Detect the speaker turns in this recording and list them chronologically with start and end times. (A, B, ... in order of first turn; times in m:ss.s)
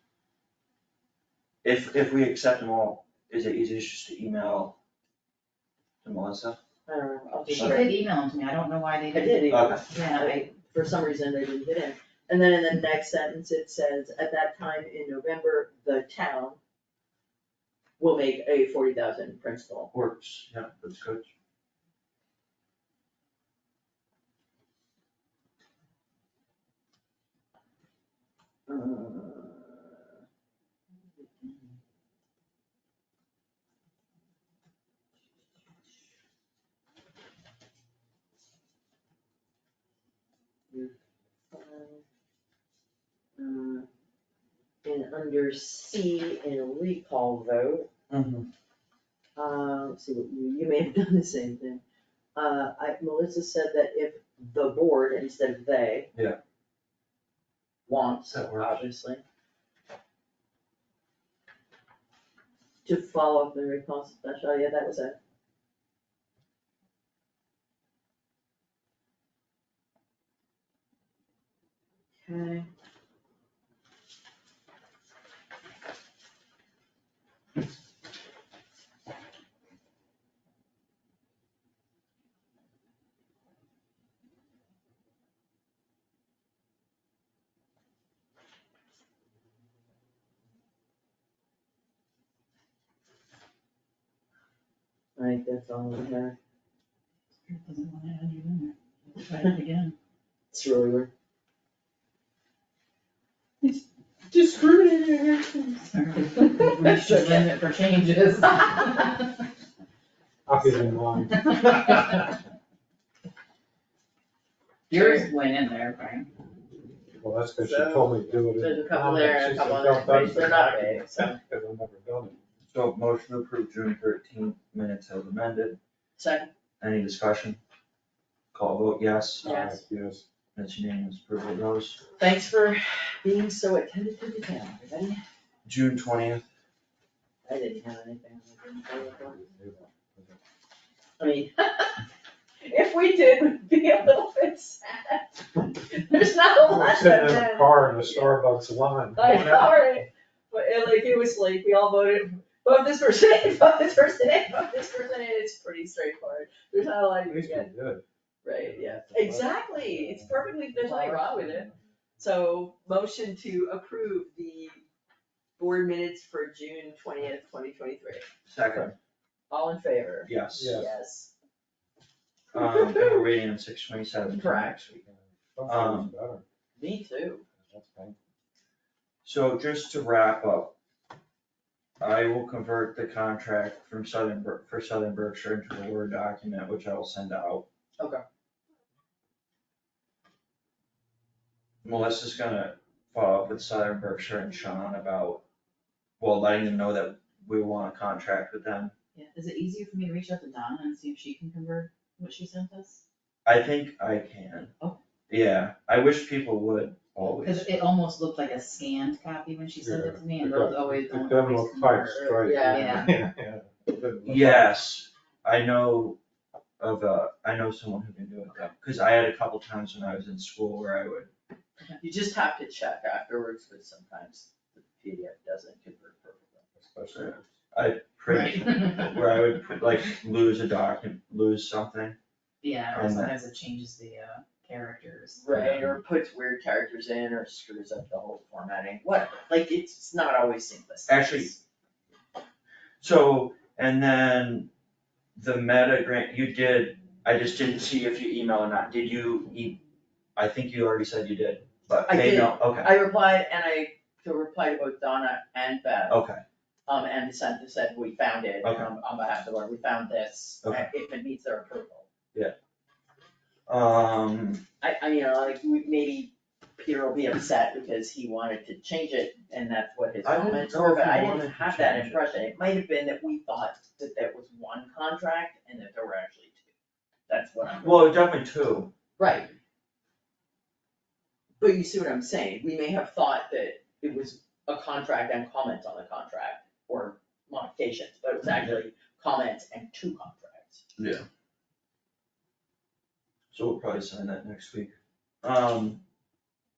0:01.6-0:04.8 A
0:06.0-0:06.6 A
0:06.9-0:07.9 B
0:07.5-0:10.5 C
0:07.6-0:07.8 A
0:09.1-0:16.6 B
0:09.5-0:09.8 A
0:18.0-0:19.9 B
0:19.9-0:21.3 A
0:28.7-0:30.0 B
0:31.2-0:31.7 B
0:41.5-0:42.0 B
0:43.4-0:43.9 B
0:44.8-0:47.9 B
0:48.1-0:48.5 A
0:49.4-0:51.8 B
0:52.4-0:56.1 B
0:57.9-0:59.2 B
0:58.3-0:58.9 A
1:02.8-1:05.2 B
1:12.2-1:12.7 B
1:35.2-1:36.4 B
1:37.4-1:40.0 C
1:40.5-1:41.1 B
1:44.3-1:45.8 B
1:45.8-1:49.4 C
1:46.4-1:47.5 B
1:50.5-1:52.3 D
1:51.3-1:52.3 C
1:54.9-1:56.3 C
1:54.9-1:55.3 B
1:57.2-2:02.4 D
1:57.6-2:01.4 B
2:02.7-2:05.8 A
2:06.2-2:06.5 B
2:06.8-2:07.6 A
2:08.5-2:09.6 A
2:09.4-2:10.2 D
2:09.4-2:09.8 B
2:10.6-2:12.0 A
2:12.2-2:15.2 B
2:15.6-2:16.5 A
2:17.4-2:19.4 B
2:19.0-2:20.4 D
2:21.2-2:22.0 B
2:22.6-2:28.4 B
2:26.7-2:29.8 D
2:29.2-2:37.7 B
2:37.3-2:38.0 D
2:38.4-2:44.8 B
2:38.6-2:41.9 D
2:45.6-2:48.3 B
2:48.5-2:49.0 A
2:49.5-2:51.3 B
2:50.3-2:50.8 A
2:50.5-2:50.9 D
2:52.5-2:53.3 B
2:52.5-2:55.0 A
2:54.3-2:54.8 B
2:55.0-2:56.4 D
2:55.7-2:56.1 A
2:56.8-2:57.5 B
2:57.6-2:58.2 D
2:59.2-3:00.8 A
3:02.0-3:07.6 A
3:08.0-3:08.2 B
3:11.8-3:15.4 A
3:16.2-3:18.9 A
3:19.2-3:23.0 C
3:23.4-3:24.7 A
3:25.3-3:27.7 A
3:27.2-3:33.1 C
3:29.8-3:34.8 D
3:32.1-3:33.1 B
3:34.3-3:36.2 A
3:36.8-3:41.3 A
3:42.0-3:46.6 B
3:46.8-3:47.5 D
3:47.1-3:52.2 A
3:48.3-3:49.2 C
3:52.6-3:55.4 C
3:52.9-3:53.4 A
3:55.4-4:01.6 B
3:55.5-3:55.9 A
4:01.1-4:01.5 A
4:03.0-4:04.7 A
4:05.4-4:09.8 A
4:10.4-4:12.9 A
4:12.1-4:16.2 B
4:16.1-4:16.4 A
4:16.9-4:22.1 B
4:18.6-4:18.9 A
4:20.6-4:20.9 A
4:23.7-4:24.6 A
4:24.8-4:36.7 B
4:30.2-4:32.2 A
4:37.3-4:38.2 B
4:37.8-4:38.9 A
4:39.2-4:39.5 B
4:41.6-4:50.8 B
4:51.0-4:51.2 A
4:53.5-4:56.0 A